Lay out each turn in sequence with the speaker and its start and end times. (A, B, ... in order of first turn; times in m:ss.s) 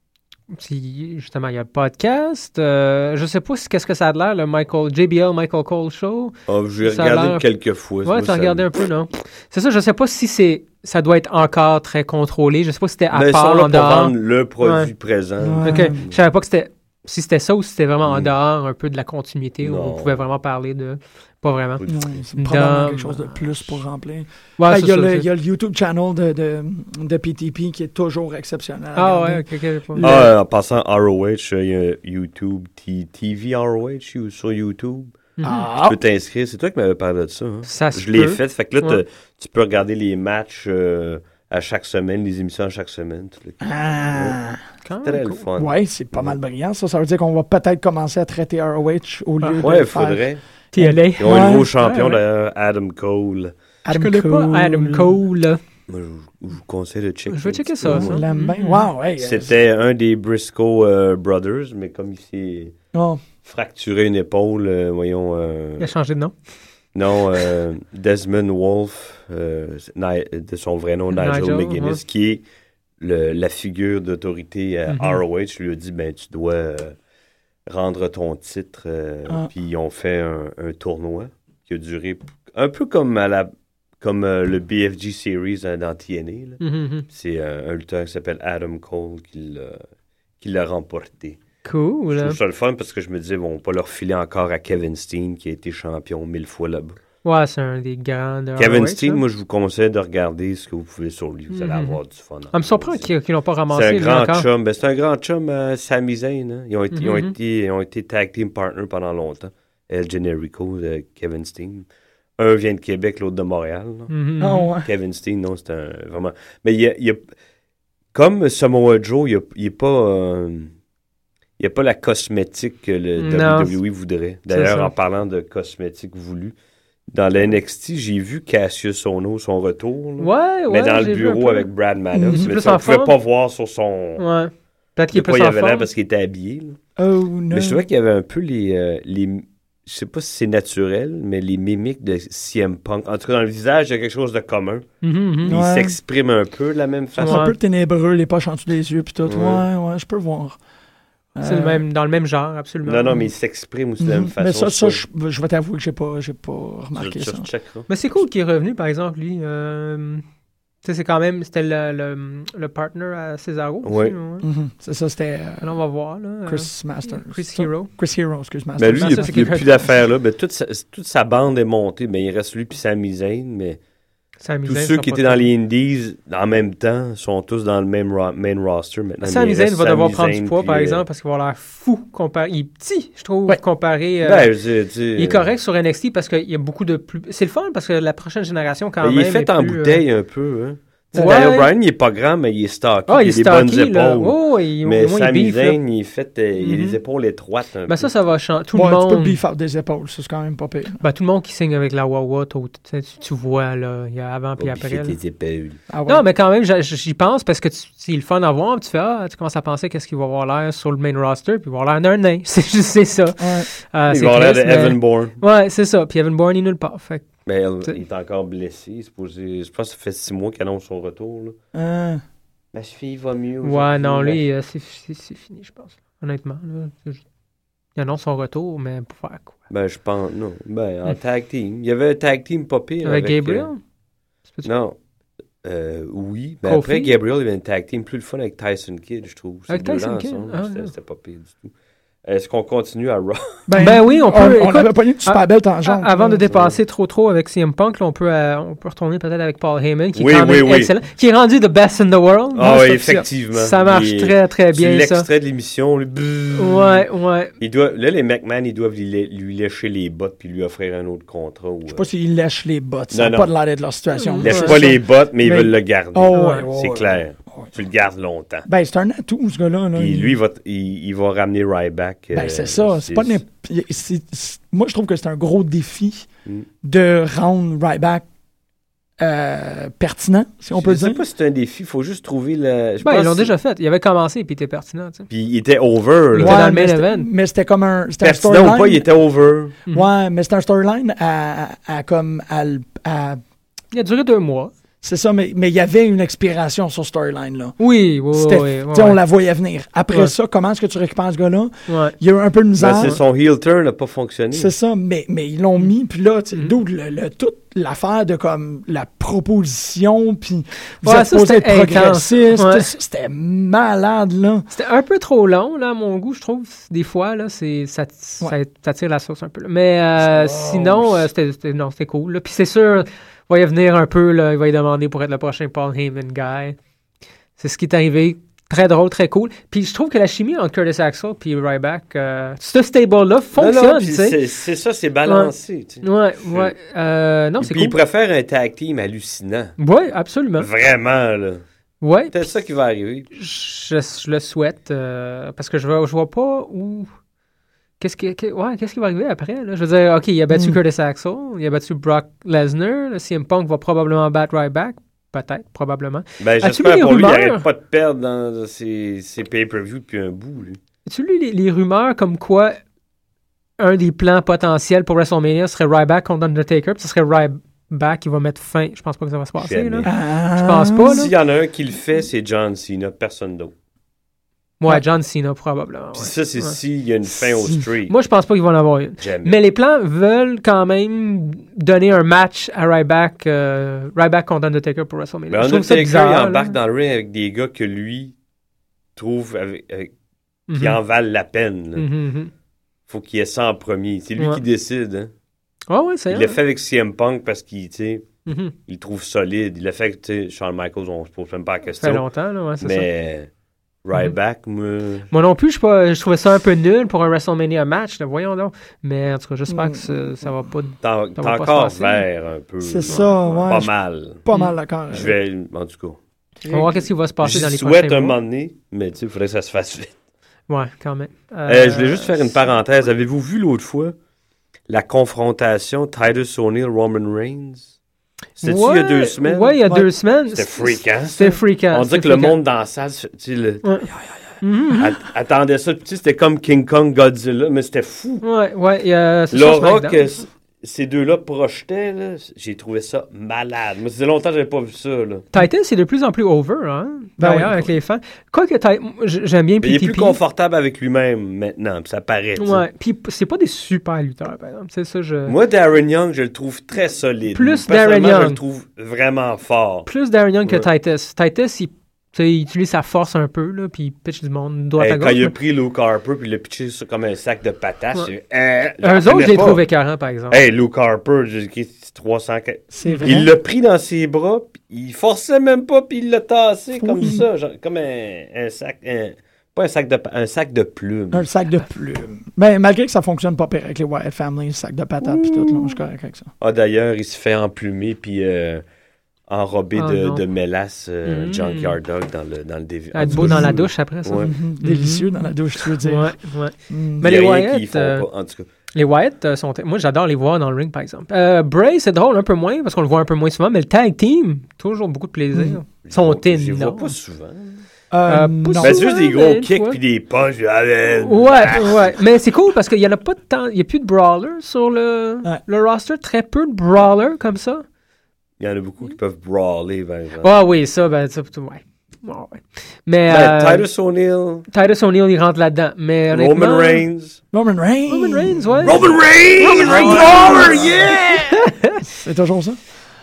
0:00.5-0:07.5 A
0:06.5-0:08.8 B
0:08.0-0:14.9 A
0:13.1-0:16.2 B
0:15.4-0:16.0 C
0:15.6-0:21.8 A
0:18.0-0:18.3 B
0:19.6-0:20.2 B
0:21.8-0:22.1 B
0:21.9-0:30.3 C
0:22.4-0:23.7 A
0:24.6-0:25.3 A
0:29.0-0:30.1 A
0:30.0-0:35.2 B
0:35.4-0:35.7 A
0:35.4-0:36.0 C
0:35.8-0:44.4 B
0:37.7-0:39.0 A
0:43.6-0:44.6 C
0:44.8-0:45.4 A
0:45.0-0:46.4 B
0:45.6-0:51.7 C
0:49.4-0:49.7 A
0:49.6-0:50.4 B
0:50.7-0:52.2 A
0:51.2-0:53.5 B
0:53.8-0:55.2 C
0:53.9-0:55.6 A
0:55.9-0:58.2 B
0:57.3-0:58.9 A
0:57.8-0:59.5 C
0:59.2-1:02.8 B
1:02.9-1:03.2 C
1:03.4-1:05.9 B
1:05.8-1:06.4 A
1:06.9-1:12.4 B
1:11.1-1:12.0 A
1:13.0-1:17.0 B
1:14.9-1:15.2 A
1:17.7-1:29.8 B
1:26.6-1:27.1 A
1:30.4-1:31.4 B
1:31.6-1:32.4 A
1:32.1-1:37.0 B
1:37.2-1:39.2 A
1:38.6-1:43.1 B
1:41.5-1:42.0 A
1:42.5-1:44.5 A
1:43.7-1:51.9 B
1:46.9-1:47.3 A
1:52.4-1:54.1 B
1:54.1-1:54.7 A
1:54.4-1:54.9 C
1:54.8-1:57.2 B
1:58.1-2:00.7 B
2:01.6-2:06.5 B
2:03.2-2:03.8 A
2:04.5-2:04.9 A
2:07.1-2:14.2 B
2:10.2-2:11.7 A
2:12.1-2:12.5 C
2:12.3-2:13.1 A
2:14.2-2:15.9 A
2:15.1-2:16.8 B
2:17.0-2:17.8 C
2:17.5-2:24.8 B
2:25.0-2:25.6 A
2:25.4-2:27.4 B
2:25.4-2:26.0 C
2:27.2-2:30.6 C
2:27.2-2:27.5 A
2:29.3-2:29.6 B
2:31.4-2:31.8 C
2:31.4-2:33.2 A
2:32.8-2:35.0 B
2:34.0-2:37.5 C
2:37.0-2:37.9 B
2:37.9-2:40.2 A
2:40.8-2:44.5 A
2:43.8-2:44.2 B
2:44.4-2:45.8 C
2:45.6-2:47.9 A
2:46.4-2:49.9 C
2:48.8-2:53.8 B
2:49.0-2:49.7 A
2:54.4-2:55.5 A
2:54.7-3:01.0 B
2:59.2-3:04.5 A
3:04.2-3:05.5 B
3:05.2-3:10.0 A
3:09.0-3:18.1 B
3:11.1-3:11.7 A
3:13.1-3:15.8 A
3:16.6-3:17.0 A
3:17.9-3:19.4 A
3:18.7-3:21.0 C
3:21.0-3:25.2 A
3:24.6-3:25.8 B
3:25.9-3:26.2 C
3:26.1-3:37.3 A
3:33.4-3:33.7 C
3:34.1-3:35.4 B
3:37.5-3:41.6 B
3:41.7-3:42.2 C
3:42.7-3:44.4 B
3:43.6-3:47.2 A
3:48.0-3:49.6 A
3:49.7-3:53.7 B
3:53.0-3:53.8 A
3:54.6-3:55.0 B
3:55.6-4:01.7 B
3:56.6-3:57.1 A
3:59.7-4:00.9 A
4:02.2-4:03.6 B
4:03.7-4:06.4 C
4:03.8-4:12.9 A
4:06.5-4:06.8 B
4:10.2-4:10.9 B
4:12.6-4:17.1 B
4:12.6-4:13.3 C
4:13.5-4:15.3 A
4:16.6-4:17.5 A
4:17.6-4:22.1 B
4:21.9-4:27.7 C
4:23.1-4:23.5 B
4:24.2-4:24.8 A
4:24.4-4:28.7 B
4:26.3-4:26.6 A
4:28.6-4:30.4 C
4:30.0-4:33.4 B
4:32.3-4:36.3 C
4:36.8-4:38.2 C
4:39.2-4:41.2 C
4:40.7-4:43.5 B
4:43.0-4:45.3 A
4:45.3-4:46.6 B
4:46.4-4:47.3 A
4:46.4-4:49.1 C
4:48.2-4:49.8 B
4:49.9-4:53.4 C
4:53.9-4:54.7 A
4:55.0-4:57.8 C
4:57.8-4:59.2 A
4:58.3-5:03.2 C
5:01.9-5:02.2 A
5:02.8-5:04.7 B
5:04.5-5:14.7 C
5:11.0-5:12.9 A
5:14.7-5:26.8 A
5:20.3-5:21.2 C
5:27.6-5:34.4 A
5:33.6-5:36.8 B
5:35.3-5:35.5 A
5:36.0-5:38.0 A
5:37.6-5:39.8 B
5:39.8-5:40.7 A
5:40.6-5:41.6 B
5:42.0-5:42.5 A
5:42.3-5:43.3 B
5:43.3-5:47.1 A
5:48.0-5:57.7 A
5:50.5-5:50.8 C
5:56.4-6:00.8 B
6:01.1-6:02.8 A
6:03.8-6:11.3 A
6:09.6-6:10.1 B
6:10.0-6:11.2 C
6:11.0-6:13.7 B
6:14.8-6:16.8 A
6:16.2-6:18.1 B
6:17.3-6:17.8 C
6:18.1-6:26.7 A
6:19.2-6:19.6 B
6:25.5-6:28.3 B
6:29.2-6:30.1 B
6:30.7-6:31.0 A
6:30.8-6:32.1 B
6:32.0-6:32.5 A
6:33.1-6:35.3 B
6:35.9-6:36.6 A
6:36.3-6:38.3 B
6:38.5-6:38.7 A
6:38.9-6:42.3 B
6:42.0-6:43.1 A
6:42.8-6:43.5 B
6:44.0-6:45.3 B
6:45.3-6:52.2 A
6:49.7-6:50.5 C
6:51.0-6:54.4 B
6:52.8-6:55.4 C
6:55.1-6:56.2 B
6:56.6-6:57.0 C
6:56.7-6:58.4 A
6:57.4-7:00.1 B
7:00.7-7:02.5 A
7:01.7-7:04.2 B
7:04.9-7:07.9 B
7:08.6-7:09.8 B
7:08.6-7:12.6 A
7:10.5-7:18.4 B
7:14.6-7:15.1 A
7:18.4-7:20.4 A
7:19.5-7:25.5 B
7:25.5-7:30.4 A
7:27.4-7:27.9 C
7:29.8-7:32.8 B
7:32.6-7:35.6 A
7:35.5-7:40.1 B
7:37.5-7:38.6 A
7:40.1-7:45.6 A
7:45.0-7:49.8 B
7:49.0-7:50.6 A
7:50.5-8:01.5 B
7:52.9-7:53.5 C
7:53.0-7:53.4 A
7:57.0-7:57.4 C
8:01.3-8:06.5 C
8:05.2-8:06.0 B
8:06.6-8:08.8 B
8:09.5-8:14.5 B
8:10.0-8:10.4 A
8:11.3-8:11.9 A
8:13.1-8:15.3 A
8:13.3-8:13.8 C
8:14.4-8:16.4 C
8:16.0-8:18.2 A
8:16.9-8:17.3 C
8:17.2-8:18.7 B
8:19.0-8:27.1 A
8:25.5-8:25.8 C
8:26.0-8:27.8 B
8:28.1-8:29.0 C
8:28.3-8:30.0 A
8:28.8-8:32.2 B
8:31.1-8:37.8 A
8:38.6-8:40.6 B
8:40.4-8:43.8 A
8:43.3-8:44.7 B
8:44.7-8:47.0 A
8:46.3-8:47.4 B
8:47.5-8:51.2 C
8:48.1-8:49.1 A
8:48.8-8:51.6 B
8:49.6-8:52.1 A
8:52.1-8:52.8 C